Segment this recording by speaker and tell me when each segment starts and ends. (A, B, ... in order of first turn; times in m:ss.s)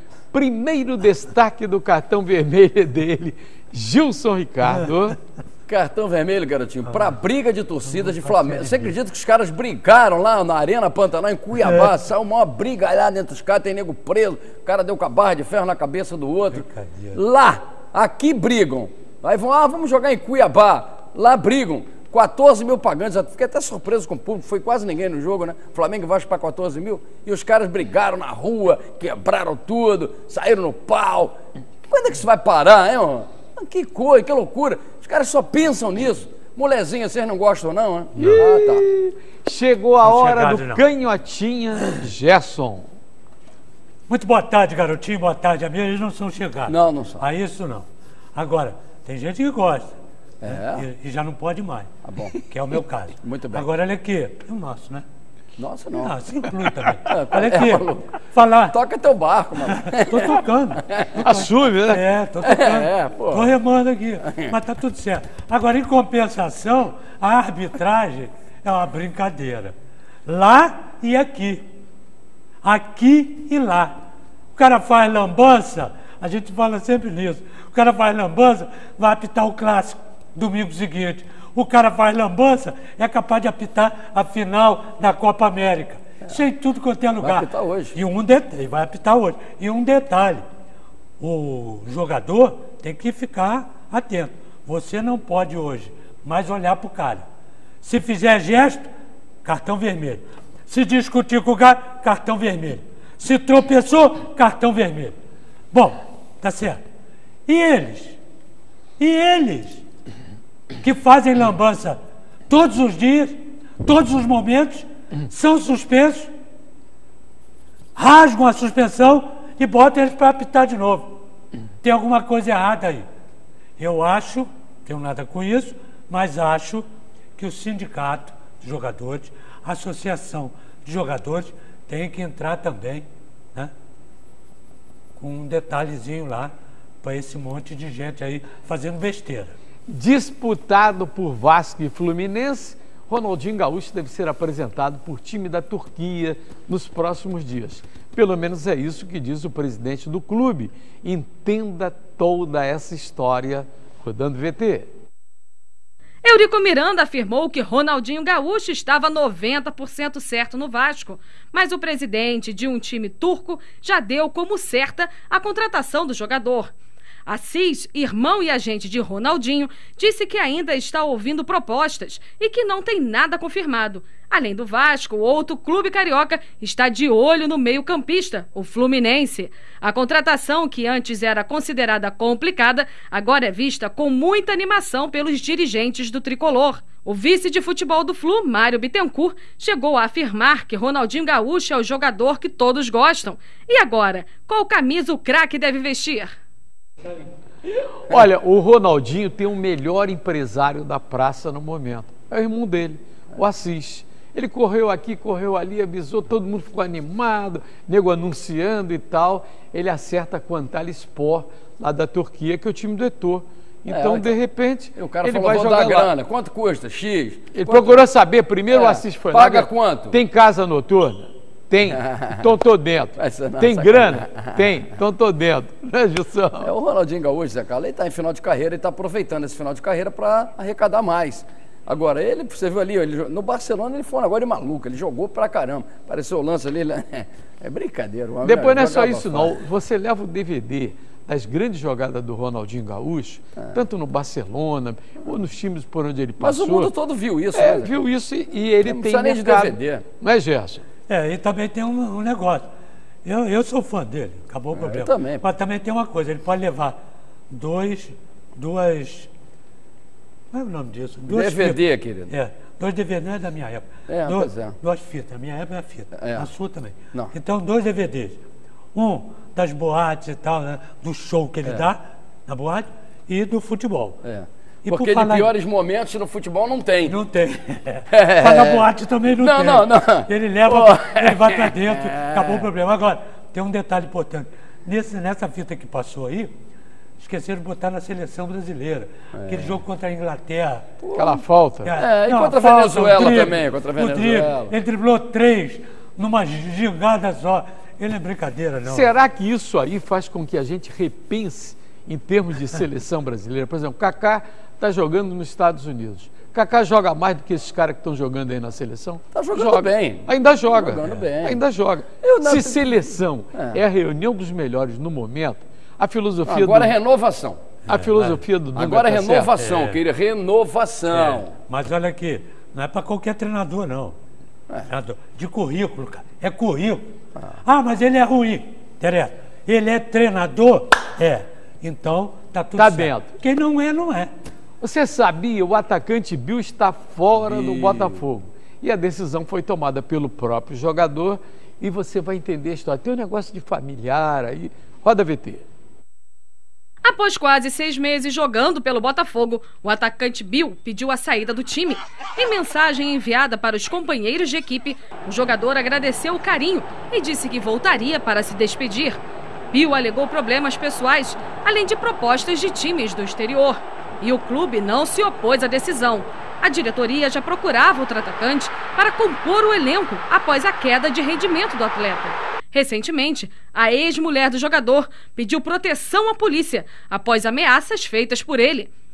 0:00.3-0:05.2 A
0:05.7-0:31.3 B
0:06.9-0:07.1 C
0:07.9-0:08.9 C
0:11.6-0:11.9 C
0:16.5-0:17.2 C
0:31.9-0:38.8 B
0:38.2-0:38.5 C
0:38.2-0:42.9 A
0:40.0-0:40.8 C
0:44.1-0:55.0 C
0:46.7-0:47.2 B
0:50.4-0:50.8 B
0:52.0-0:52.4 B
0:53.2-0:53.7 B
0:55.6-0:56.2 B
0:56.0-0:58.8 C
0:56.8-0:58.1 B
0:58.7-1:01.2 B
0:59.6-1:09.7 C
1:01.2-1:02.0 A
1:02.4-1:03.5 B
1:10.2-1:11.6 C
1:12.6-1:13.9 C
1:14.5-1:30.4 C
1:27.2-1:28.0 B
1:31.2-1:37.2 C
1:37.8-1:38.8 C
1:39.4-1:45.1 C
1:45.7-1:46.8 C
1:47.4-1:48.2 C
1:49.0-1:49.8 C
1:50.8-1:52.0 C
1:52.5-1:56.3 C
1:57.9-2:01.2 C
2:01.8-2:03.0 C
2:03.8-2:13.7 C
2:15.2-2:19.6 C
2:19.9-2:34.9 A
2:36.2-2:46.7 D
2:47.2-3:16.3 D
3:18.0-3:36.1 A
3:33.9-3:34.4 B
3:35.0-3:38.0 B
3:37.5-3:46.7 A
3:38.7-3:40.2 B
3:42.0-3:42.4 B
3:43.2-3:44.6 B
3:46.6-3:59.6 B
3:58.4-4:06.9 A
4:06.4-4:08.0 B
4:07.5-4:10.8 A
4:08.8-4:10.0 B
4:11.1-4:12.7 C
4:13.2-4:17.0 C
4:14.7-4:15.4 B
4:17.5-4:19.3 C
4:20.5-4:28.4 C
4:21.3-4:22.3 B
4:24.1-4:24.8 B
4:26.1-4:26.5 B
4:28.9-4:34.2 C
4:34.2-4:37.2 B
4:34.8-4:35.5 C
4:37.0-4:46.5 C
4:38.1-4:38.8 B
4:39.4-4:42.6 B
4:47.2-4:50.8 C
4:49.3-4:49.8 B
4:51.0-4:51.4 B
4:51.1-4:52.0 A
4:51.8-4:59.1 C
4:51.9-4:54.7 B
4:58.8-5:16.9 A
5:09.3-5:11.6 B
5:12.2-5:13.0 B
5:13.5-5:13.8 B
5:16.4-5:17.6 B
5:17.9-5:18.4 C
5:17.9-5:19.5 A
5:18.7-5:21.5 B
5:19.6-5:20.0 C
5:21.1-5:24.2 C
5:24.9-5:27.0 C
5:27.6-5:34.3 C
5:32.8-5:33.3 A
5:34.8-5:45.6 A
5:37.4-5:38.2 B
5:47.0-5:59.2 D
5:59.7-6:18.9 D